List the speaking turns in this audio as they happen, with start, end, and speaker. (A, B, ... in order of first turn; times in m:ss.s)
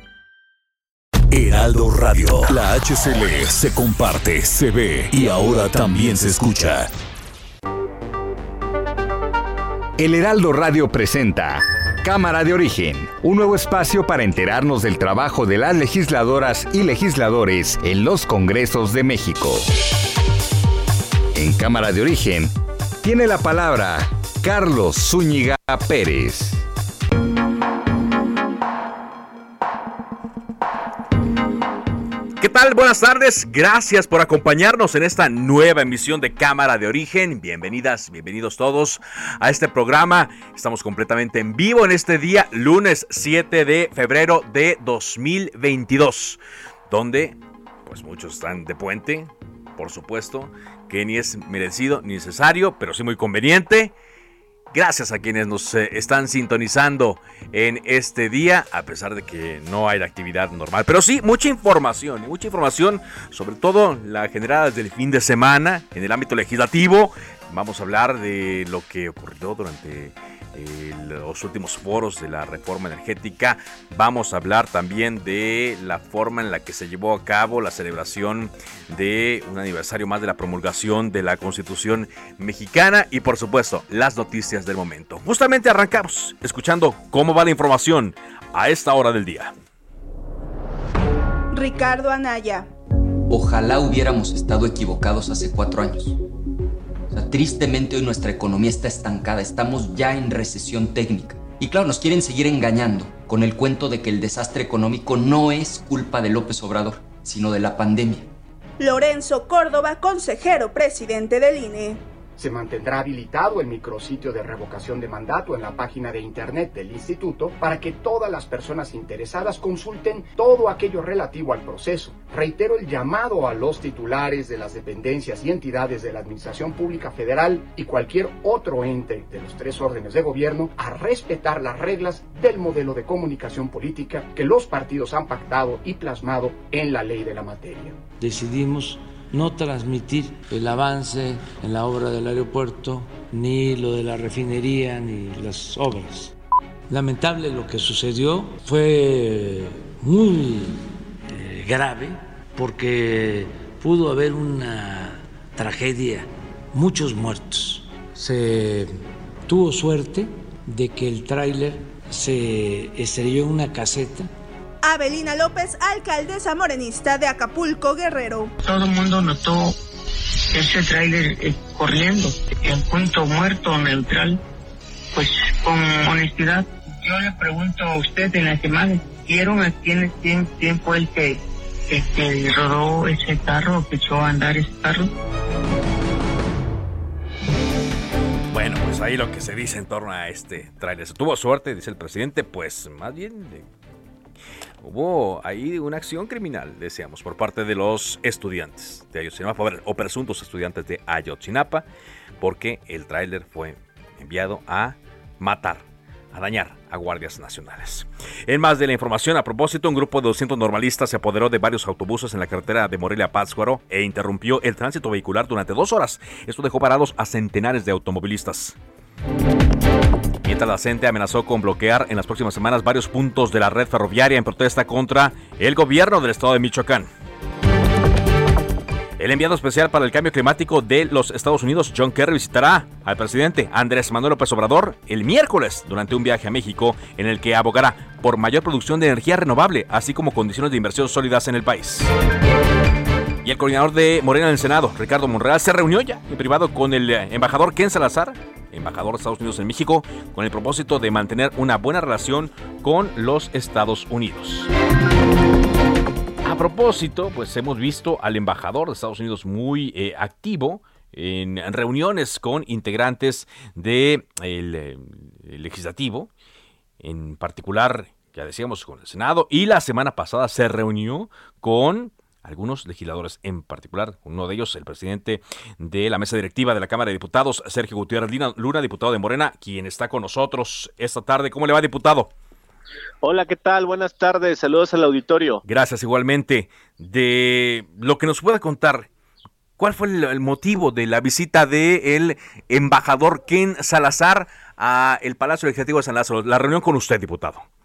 0:01.3-0:06.9 A
0:10.0-0:19.6 B
0:21.3-0:26.6 B
0:32.4-0:53.9 C
0:54.7-1:29.5 C
1:31.5-1:32.7 D
1:33.3-1:36.2 E
1:37.1-1:48.3 E
1:48.8-1:52.0 D
1:52.4-2:18.0 F
2:18.2-2:26.3 G
2:26.9-2:44.3 G
2:44.8-2:48.5 D
2:48.6-2:49.8 H
2:50.5-2:54.4 H
2:55.1-3:05.1 H
3:08.5-3:13.7 C
3:14.8-3:21.8 C
3:22.4-3:38.8 C
3:40.4-3:47.1 C
3:49.2-4:02.1 C
4:03.4-4:14.7 C
4:16.4-4:26.3 C
4:27.0-4:42.3 C
4:43.2-4:45.6 I
4:45.6-4:49.1 C
4:49.8-4:57.6 C